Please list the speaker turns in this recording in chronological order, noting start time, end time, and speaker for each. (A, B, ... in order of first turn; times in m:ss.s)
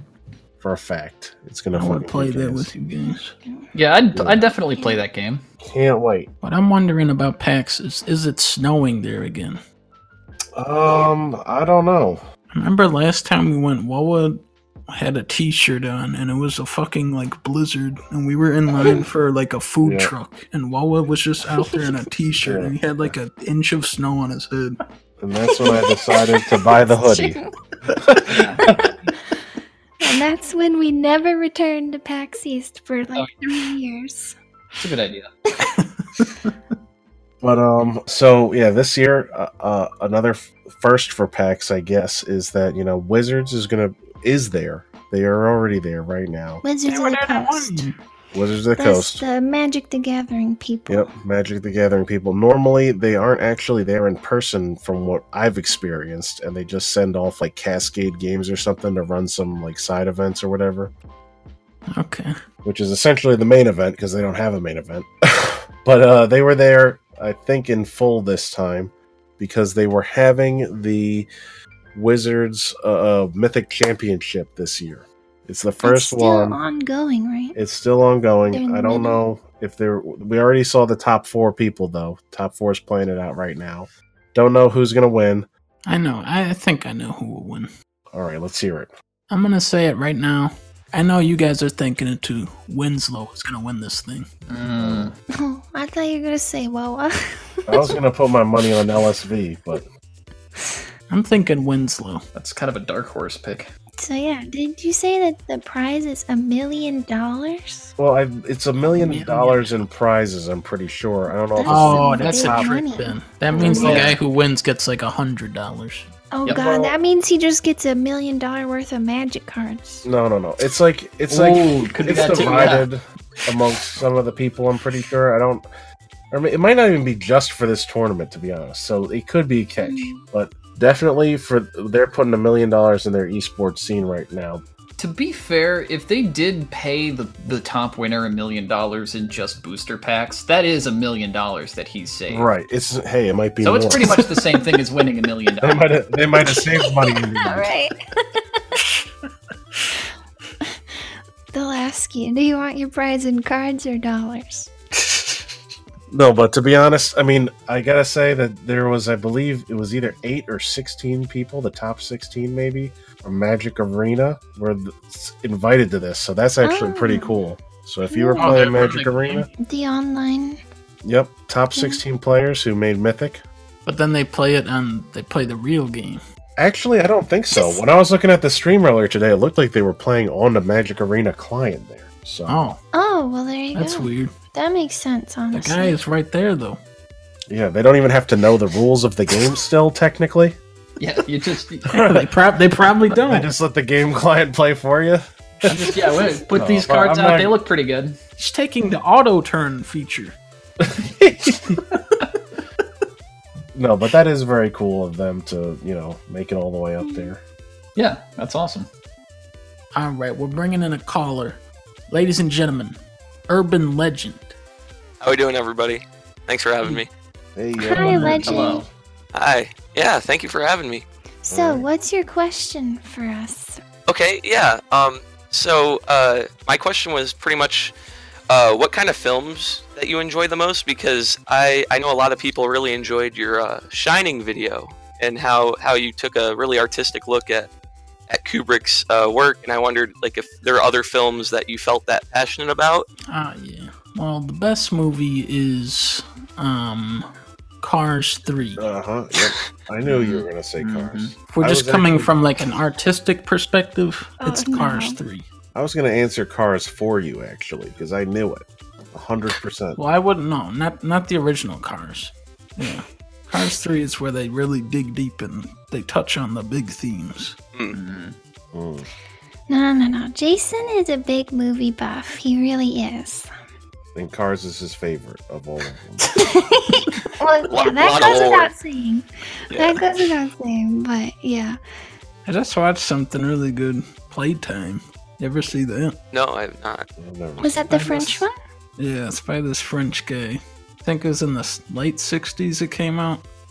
0:00.6-0:02.7 A
0:01.7-0:03.3 B
0:03.0-0:03.7 C
0:03.7-0:05.4 D
0:04.1-0:04.4 A
0:04.7-0:05.0 C
0:05.6-0:06.3 A
0:06.4-0:09.6 B
0:10.6-0:12.2 A
0:12.5-0:24.8 B
0:19.8-0:20.1 A
0:22.3-0:23.2 A
0:25.2-0:27.4 A
0:25.6-0:26.2 C
0:27.0-0:27.5 C
0:28.0-0:28.8 A
0:28.3-0:28.7 D
0:28.6-0:28.9 C
0:30.0-0:34.4 C
0:34.8-0:35.3 D
0:35.6-0:36.5 B
0:37.4-0:46.6 A
0:46.6-0:47.9 C
0:46.8-0:47.9 B
0:48.3-0:49.2 A
0:48.8-0:51.1 C
0:50.9-1:00.9 A
1:01.9-1:02.3 B
1:02.6-1:11.3 A
1:11.9-1:16.6 A
1:15.8-1:17.6 C
1:17.5-1:25.5 A
1:18.5-1:19.2 C
1:25.8-1:27.7 B
1:28.1-1:28.9 A
1:29.3-1:34.3 B
1:34.5-1:35.1 D
1:34.8-1:35.1 A
1:35.4-1:37.9 C
1:37.7-1:39.9 A
1:40.6-1:40.8 C
1:41.1-1:42.2 B
1:42.3-1:43.7 D
1:44.0-1:47.9 C
1:48.0-1:52.9 A
1:49.1-1:49.6 B
1:51.5-1:54.0 C
1:51.6-1:56.1 B
1:53.5-1:54.2 A
1:53.6-1:54.2 D
1:56.3-2:00.1 C
1:56.5-1:57.0 A
2:00.0-2:05.6 A
2:01.3-2:02.9 D
2:06.3-2:14.6 A
2:09.8-2:10.2 C
2:15.0-2:22.5 D
2:22.3-2:24.3 A
2:23.6-2:25.9 D
2:25.6-2:27.7 A
2:26.4-2:28.6 C
2:31.5-2:34.7 C
2:36.1-2:49.5 A
2:46.6-2:47.4 C
2:48.1-2:48.6 C
2:48.4-2:48.8 B
2:48.4-2:49.4 D
2:49.6-2:50.6 C
2:51.0-2:53.4 A
2:51.8-2:52.0 C
2:53.8-2:56.2 B
2:56.6-3:02.6 A
2:57.5-2:57.8 C
3:02.5-3:02.8 B
3:02.9-3:06.0 C
3:03.7-3:04.3 B
3:05.5-3:06.8 B
3:07.5-3:10.6 A
3:11.0-3:11.9 D
3:11.9-3:12.3 A
3:11.9-3:13.5 B
3:13.1-3:15.8 A
3:15.6-3:18.2 D
3:16.5-3:17.5 A
3:18.4-3:20.4 B
3:20.8-3:21.6 A
3:23.7-3:27.4 A
3:27.0-3:27.3 C
3:28.0-3:28.9 D
3:29.9-3:34.6 B
3:35.2-3:37.1 E
3:37.6-3:38.9 A
3:37.8-3:38.8 C
3:37.9-3:38.6 B
3:38.4-3:38.8 D
3:39.3-3:41.0 E
3:41.4-3:43.8 C
3:41.5-3:41.9 A
3:44.1-3:47.9 E
3:48.5-3:57.7 E
3:58.3-4:03.1 E
4:03.3-4:07.3 B
4:07.8-4:08.8 B
4:08.8-4:12.4 A
4:10.0-4:11.3 D
4:11.5-4:15.4 B
4:14.4-4:15.2 C
4:15.7-4:20.0 A
4:20.0-4:27.6 B
4:27.9-4:28.4 D
4:28.7-4:29.1 A
4:29.7-4:33.5 C
4:34.1-4:36.4 A
4:36.3-4:41.8 C
4:37.7-4:38.7 E
4:42.4-4:46.2 B
4:46.3-4:47.1 E
4:47.2-4:48.1 A
4:47.6-4:48.5 C
4:47.9-4:48.4 B
4:49.0-4:53.4 B